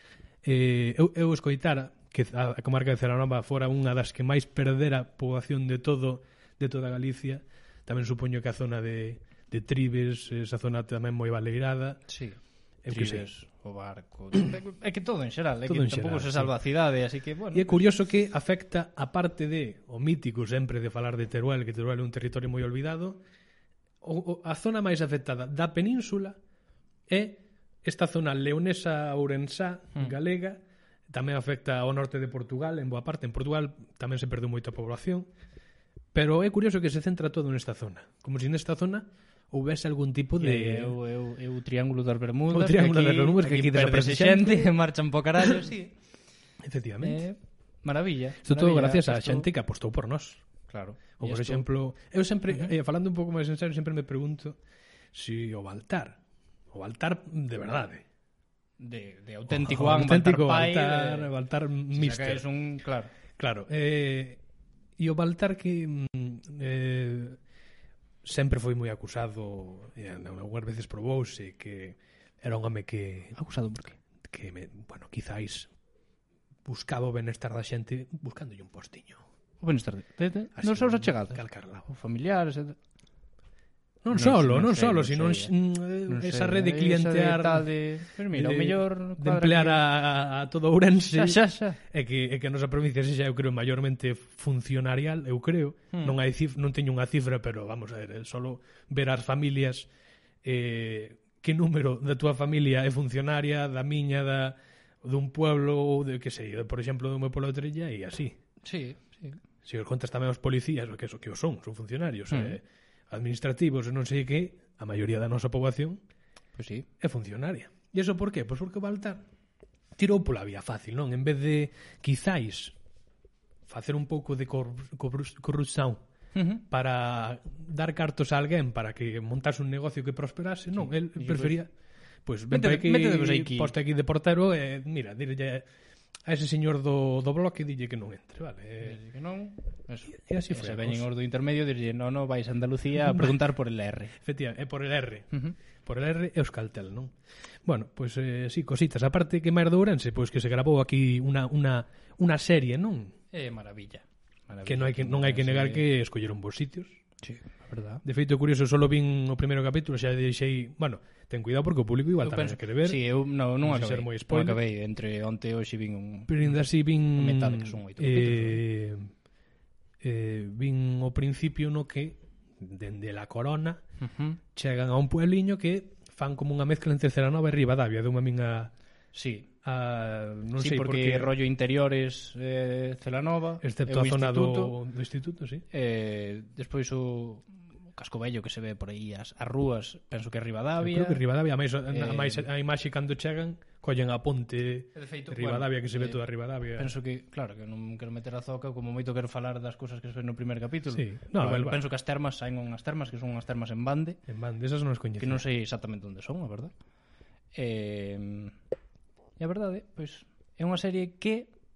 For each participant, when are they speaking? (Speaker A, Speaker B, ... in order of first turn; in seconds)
Speaker A: 0.4-12.0, 12.8-13.3, 15.7-16.6, 17.5-23.2, 24.0-26.4, 27.1-35.3, 36.1-41.0, 42.5-44.7, 46.6-47.2, 48.4-50.4, 51.2-54.6, 55.1-56.2, 56.7-58.0, 59.5-62.4, 63.4-64.4, 65.0-67.4, 68.2-73.4, 74.2-75.7, 76.7-79.2, 80.6-81.9, 84.0-87.7, 88.3-99.9, 100.4-108.4, 109.6-116.0, 117.0-119.2, 120.0-122.7, 123.7-126.0, 126.7-131.7, 132.2-135.7, 136.2-139.0, 140.1-141.1, 142.9-143.3, 144.2-145.3, 145.8-153.1, 154.7-157.0, 158.0-163.0, 163.6-164.6, 166.3-169.1, 170.0-173.8, 174.5-178.7, 179.6-181.3, 183.6-185.6, 190.8-196.9, 200.9-201.8, 204.3-205.4
Speaker B: 12.1-17.8, 40.4-45.9, 47.0-49.5, 50.7-51.6, 58.8-61.3, 61.9-63.1, 73.3-74.0, 79.6-82.8, 84.1-85.5, 86.1-89.8, 91.1-91.8, 108.6-109.4, 112.3-112.6, 116.5-116.9, 126.3-126.6, 131.1-131.6, 132.5-133.7, 138.8-144.2, 153.3-155.8, 157.2-158.0, 162.2-168.6, 174.0-174.4, 179.1-179.5, 180.6-184.7, 185.7-191.2, 191.9-192.4, 194.9-196.2, 196.8-204.2, 205.2-206.7, 207.5-208.5, 209.4-211.5